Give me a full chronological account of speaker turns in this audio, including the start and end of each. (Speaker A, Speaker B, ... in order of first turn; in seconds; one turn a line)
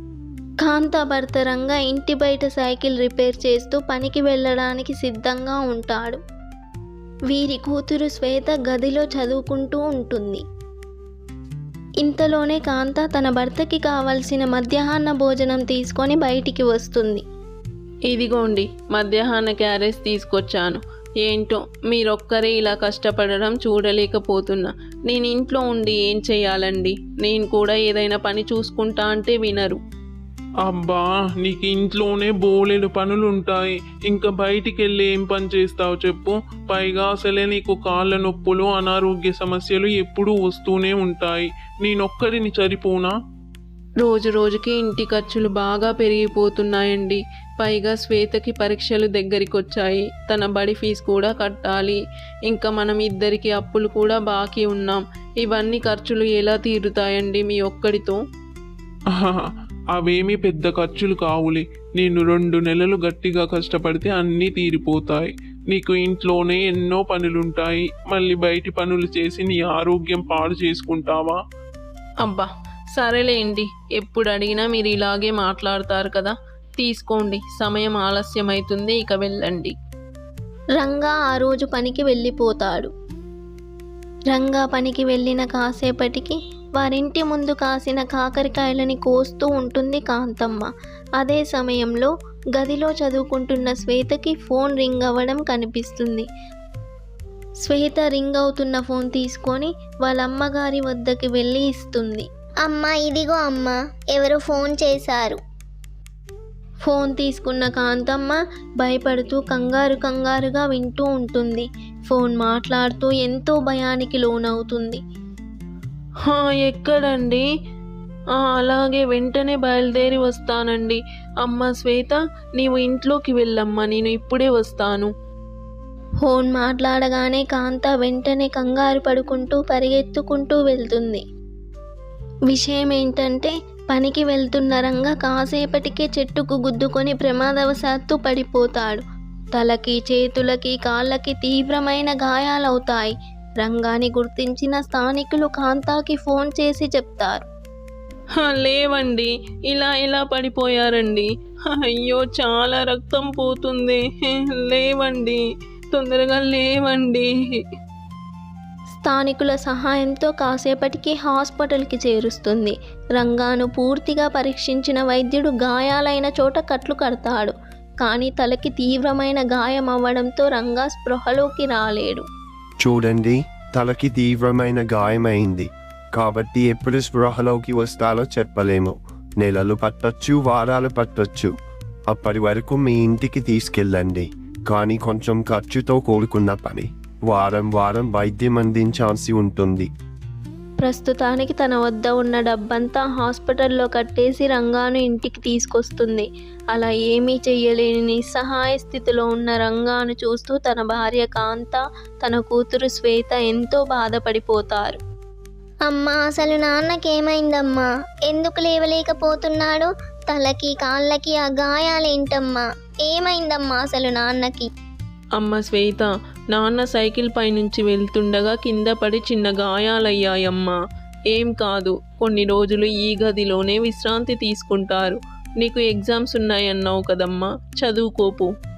Speaker A: 0.6-6.2
Speaker A: 7.3-10.4
Speaker A: 12.0-17.2
Speaker B: 18.1-29.8
Speaker C: 30.6-43.1
Speaker B: 44.0-58.2
Speaker C: 59.2-71.4
Speaker B: 72.2-79.8
Speaker A: 80.8-82.9
Speaker A: 84.3-96.3
Speaker A: 97.6-102.3
Speaker D: 102.7-105.4
Speaker A: 106.8-115.0
Speaker B: 116.2-117.5
Speaker B: 118.3-125.1
Speaker A: 126.2-131.2
Speaker A: 132.5-139.0
Speaker A: 139.5-147.4
Speaker B: 148.4-155.4
Speaker B: 155.9-157.3
Speaker A: 158.9-172.2
Speaker E: 172.8-181.5
Speaker E: 182.1-189.9
Speaker A: 190.8-205.0
Speaker D: 205.9-214.7
Speaker B: 215.4-220.8
Speaker B: 221.3-228.5